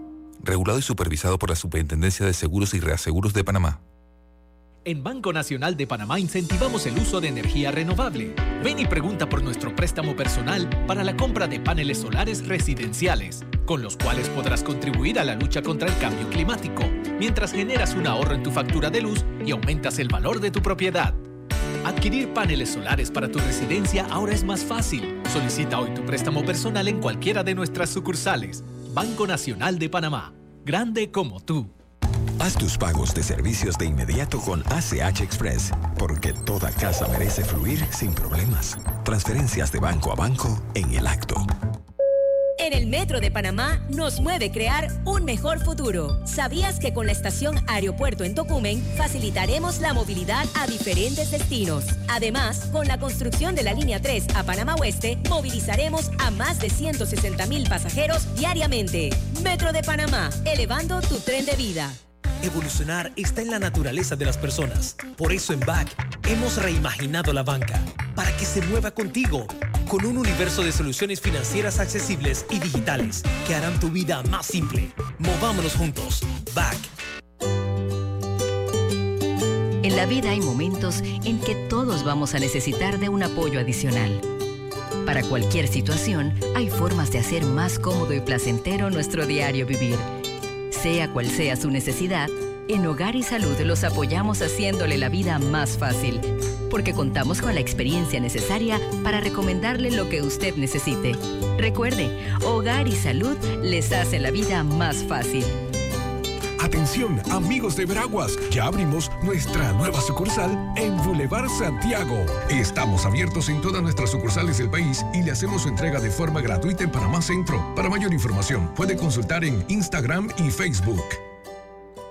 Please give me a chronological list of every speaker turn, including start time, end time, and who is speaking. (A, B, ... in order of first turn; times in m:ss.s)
0:00.4-0:03.8 A
0:04.8-0:21.2 B
0:21.8-0:31.7 B
0:32.4-0:41.5 C
0:42.6-1:02.0 D
1:02.4-1:16.9 E
1:19.8-1:24.2 F
1:25.0-1:30.1 F
1:30.7-1:45.5 F
1:46.6-2:01.2 G